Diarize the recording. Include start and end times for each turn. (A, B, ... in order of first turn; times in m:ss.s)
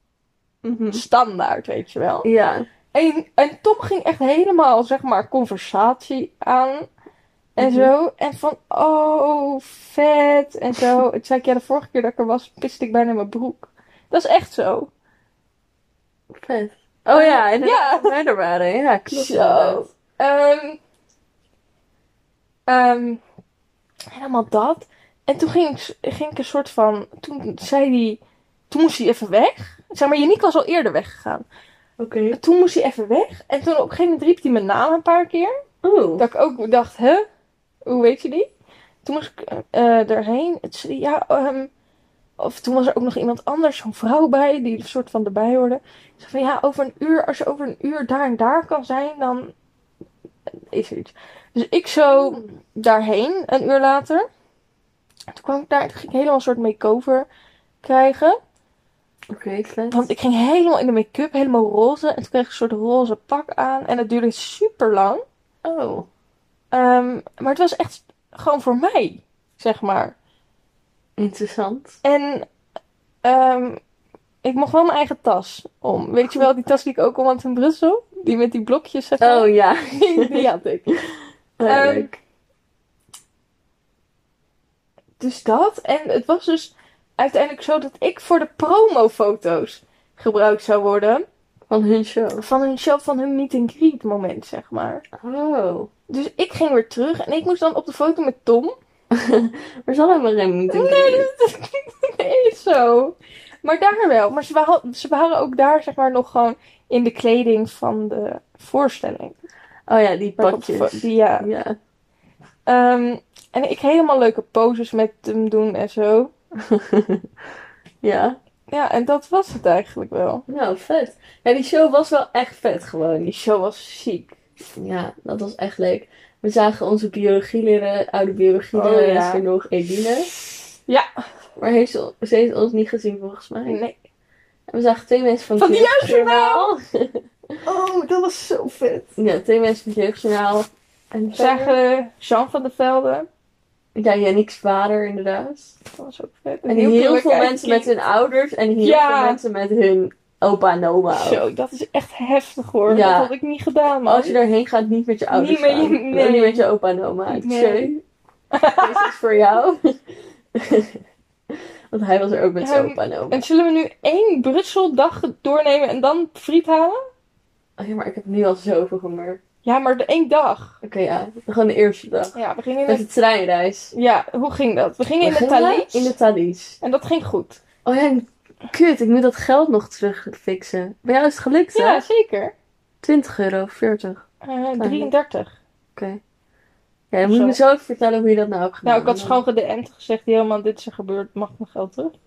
0:00.6-0:01.0 A
0:00.9-0:02.3 B
0:02.2-0:02.7 A
0:02.9-0:06.9 B
0:07.6-0:14.9 B
0:07.6-0:07.9 A
0:16.3-0:19.8 A
0:17.1-0:18.2 B
0:19.1-0:20.8 B
0:22.7-0:23.2 B
0:24.1-0:31.4 B
0:32.0-0:32.4 A
0:32.3-0:35.5 B
0:35.8-0:36.3 A
0:36.2-0:37.2 B
0:37.8-0:38.5 B
0:39.0-0:41.7 B
0:42.4-0:49.5 B
0:50.7-0:54.3 B
0:52.1-0:52.4 A
0:55.3-0:57.3 B
0:57.8-0:58.4 B
0:59.3-1:00.1 A
0:59.9-1:05.2 B
1:05.6-1:06.1 A
1:06.7-1:10.1 B
1:11.2-1:12.0 A
1:12.0-1:12.5 B
1:13.2-1:13.8 B
1:14.4-1:20.8 B
1:19.2-1:20.9 A
1:21.6-1:22.2 A
1:21.7-1:22.1 B
1:25.2-1:31.2 B
1:31.7-1:32.4 A
1:32.4-1:35.0 B
1:35.2-1:35.9 A
1:36.1-1:38.8 B
1:39.1-1:41.3 A
1:40.7-1:49.4 B
1:49.9-1:51.8 A
1:50.4-1:51.5 B
1:52.6-1:56.3 B
1:56.6-1:57.2 A
1:58.0-1:58.4 A
1:58.7-2:00.4 B
2:00.5-2:03.4 A
2:03.3-2:04.3 B
2:04.8-2:10.3 A
2:08.7-2:09.4 B
2:11.6-2:13.8 A
2:13.7-2:14.0 B
2:14.7-2:17.6 A
2:15.6-2:16.7 B
2:17.6-2:19.2 B
2:19.2-2:21.8 A
2:21.3-2:23.3 B
2:23.9-2:25.8 A
2:26.0-2:27.9 B
2:26.6-2:31.4 A
2:28.8-2:29.4 B
2:31.1-2:34.3 B
2:32.9-2:33.3 A
2:34.0-2:38.0 A
2:35.3-2:36.6 B
2:37.3-2:37.9 B
2:38.5-2:39.1 B
2:38.8-2:40.0 A
2:40.5-2:43.4 A
2:42.6-2:47.0 B
2:47.8-2:49.4 A
2:49.6-2:50.7 B
2:50.8-2:53.9 A
2:52.3-2:53.0 B
2:53.9-2:56.1 B
2:55.2-2:56.8 A
2:56.8-2:57.6 B
2:57.8-3:02.0 A
3:01.7-3:02.5 B
3:03.0-3:04.2 A
3:04.4-3:05.5 B
3:04.8-3:05.1 A
3:06.0-3:06.2 A
3:07.1-3:09.4 A
3:07.2-3:07.6 B
3:08.8-3:12.1 B